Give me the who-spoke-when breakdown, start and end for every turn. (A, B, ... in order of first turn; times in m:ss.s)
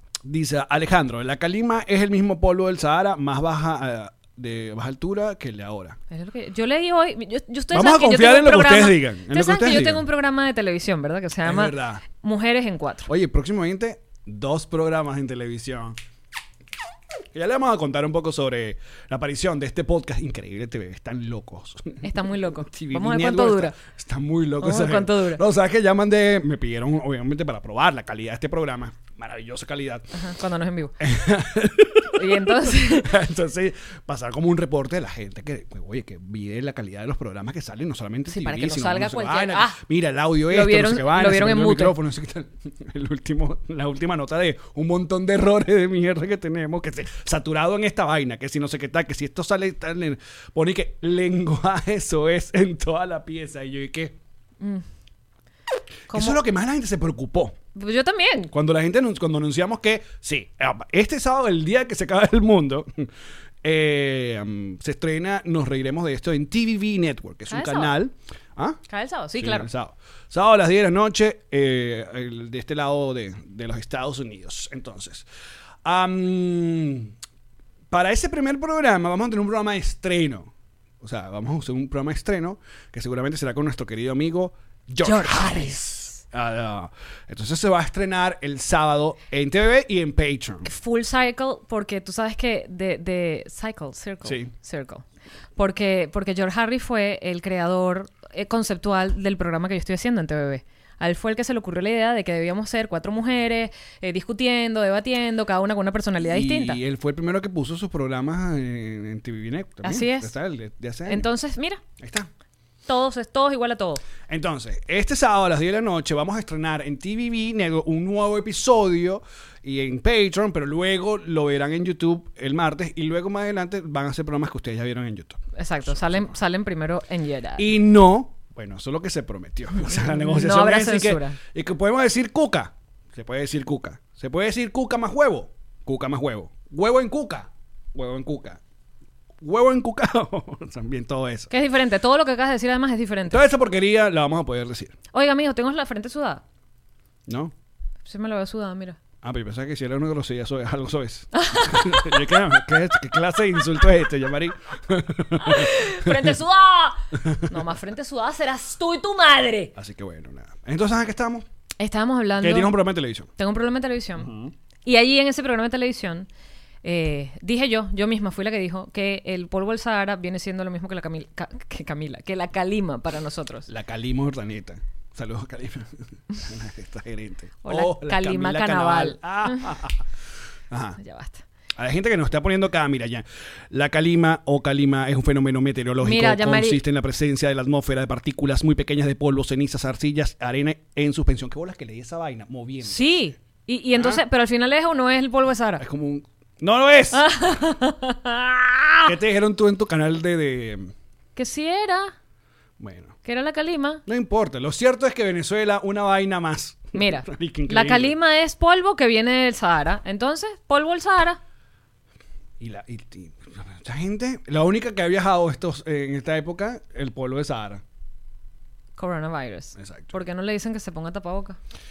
0:00.2-0:06.0 A
0:06.1-0:13.1 B
0:07.7-0:10.0 A
0:11.4-0:12.0 A
0:13.1-0:16.0 A
0:17.3-0:30.1 A
0:22.0-0:23.8 B
0:24.6-0:25.4 B
0:30.1-0:31.0 B
0:31.0-0:54.2 A
0:32.1-0:33.1 B
0:38.3-0:39.8 B
0:40.5-0:42.0 B
0:56.1-0:56.4 B
0:56.1-0:57.6 A
0:57.8-0:58.5 B
0:58.5-1:03.1 A
1:03.6-1:08.8 A
1:07.5-1:07.9 B
1:08.9-1:09.7 B
1:09.4-1:15.3 A
1:15.8-1:17.1 A
1:17.9-1:30.7 A
1:25.0-1:26.2 B
1:30.6-1:35.0 B
1:34.2-1:34.5 A
1:35.6-1:46.8 B
1:46.2-1:51.3 A
1:49.8-1:50.3 B
1:51.1-1:51.8 B
1:52.0-1:52.3 A
1:52.9-1:54.0 B
1:54.3-2:06.3 A
2:05.6-2:07.6 B
2:07.6-2:18.6 A
2:09.8-2:11.4 B
2:19.4-2:21.5 A
2:21.5-2:23.5 B
2:23.3-2:25.0 A
2:25.1-2:26.4 B
2:27.3-2:27.5 A
2:28.0-2:29.0 B
2:29.2-2:36.3 A
2:31.3-2:32.2 B
2:35.4-2:39.7 B
2:37.2-2:37.6 A
2:39.8-2:41.5 A
2:41.8-2:42.8 B
2:42.4-2:43.3 A
2:43.4-2:44.3 B
2:44.2-2:44.5 A
2:44.8-2:46.3 B
2:46.8-2:53.7 B
2:53.7-3:00.0 A
2:57.6-2:59.7 B
3:00.7-3:01.0 A
3:01.0-3:01.4 B
3:01.8-3:13.1 A
3:06.0-3:06.8 B
3:12.8-3:15.8 B
3:14.0-3:14.2 A
3:15.8-3:17.2 A
3:17.1-3:19.1 B
3:19.1-3:20.9 A
3:21.4-3:22.1 B
3:22.8-3:23.2 A
3:23.2-3:24.0 B
3:24.1-3:28.1 A
3:26.9-3:31.4 B
3:32.6-3:37.8 A
3:39.0-3:41.6 B
3:39.8-3:40.2 A